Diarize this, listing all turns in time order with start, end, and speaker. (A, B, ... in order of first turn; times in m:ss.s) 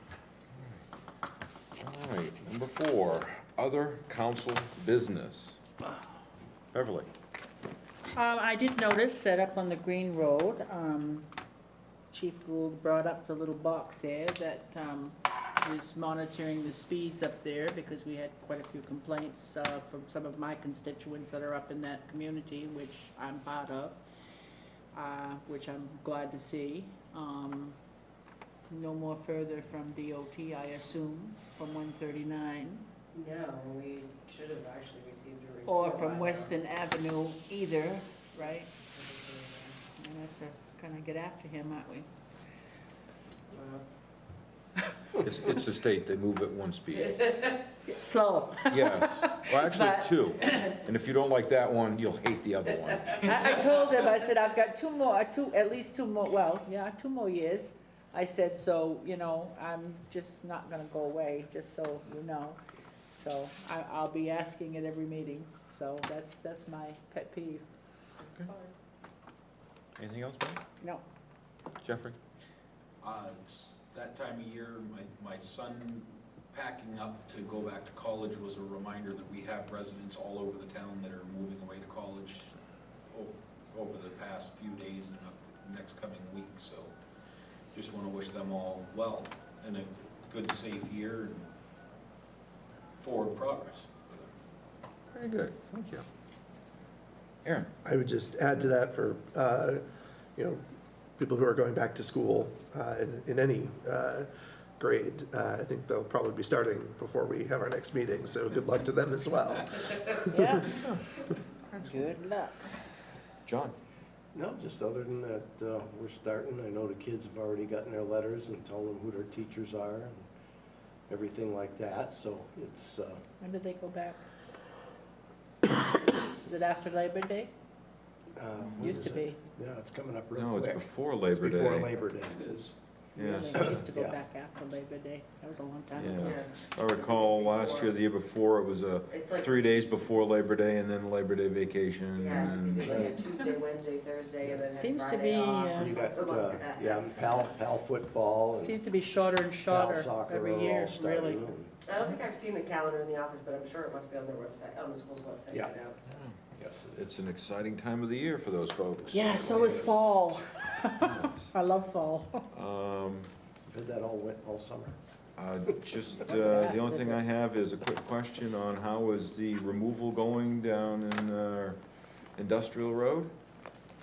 0:01.8-0:05.6 A
0:06.7-0:07.1 A
0:08.1-0:11.3 B
0:12.1-0:24.0 B
0:24.9-0:27.8 B
0:28.7-0:32.9 B
0:33.1-0:36.5 C
0:35.6-0:38.7 B
0:38.9-0:39.8 C
0:40.0-0:42.1 B
0:43.5-0:43.8 C
0:45.2-0:47.4 A
0:47.8-0:50.7 B
0:48.7-0:53.6 A
0:53.2-1:02.6 B
1:03.1-1:07.7 B
1:10.0-1:10.6 A
1:11.8-1:12.2 A
1:13.0-1:22.5 D
1:23.1-1:26.9 D
1:27.7-1:31.5 D
1:33.0-1:34.3 D
1:35.1-1:36.0 A
1:37.4-1:37.7 A
1:37.8-1:39.8 E
1:40.4-1:40.6 E
1:41.2-1:50.7 E
1:50.3-1:50.8 B
1:51.8-1:52.7 B
1:53.5-1:53.8 A
1:54.3-2:00.2 F
2:01.1-2:03.2 F
2:03.4-2:04.3 B
2:06.3-2:07.5 B
2:08.4-2:12.6 F
2:08.8-2:09.4 B
2:10.4-2:11.9 A
2:12.2-2:12.8 D
2:13.2-2:16.4 B
2:13.2-2:13.8 A
2:13.6-2:14.2 F
2:16.0-2:23.0 A
2:16.2-2:18.0 C
2:19.1-2:19.6 C
2:22.2-2:27.1 C
2:22.8-2:23.2 F
2:24.7-2:26.1 B
2:25.8-2:28.8 F
2:28.6-2:31.5 B
2:29.7-2:31.7 F
2:31.8-2:36.2 C
2:36.1-2:36.4 A
2:36.6-2:37.0 F
2:36.9-2:40.0 A
2:39.1-2:42.5 B
2:39.1-2:40.0 F
2:41.0-2:41.5 A
2:42.5-2:43.3 A
2:43.7-2:45.0 F
2:45.4-2:51.8 A
2:46.2-2:47.2 B
2:52.4-2:53.3 A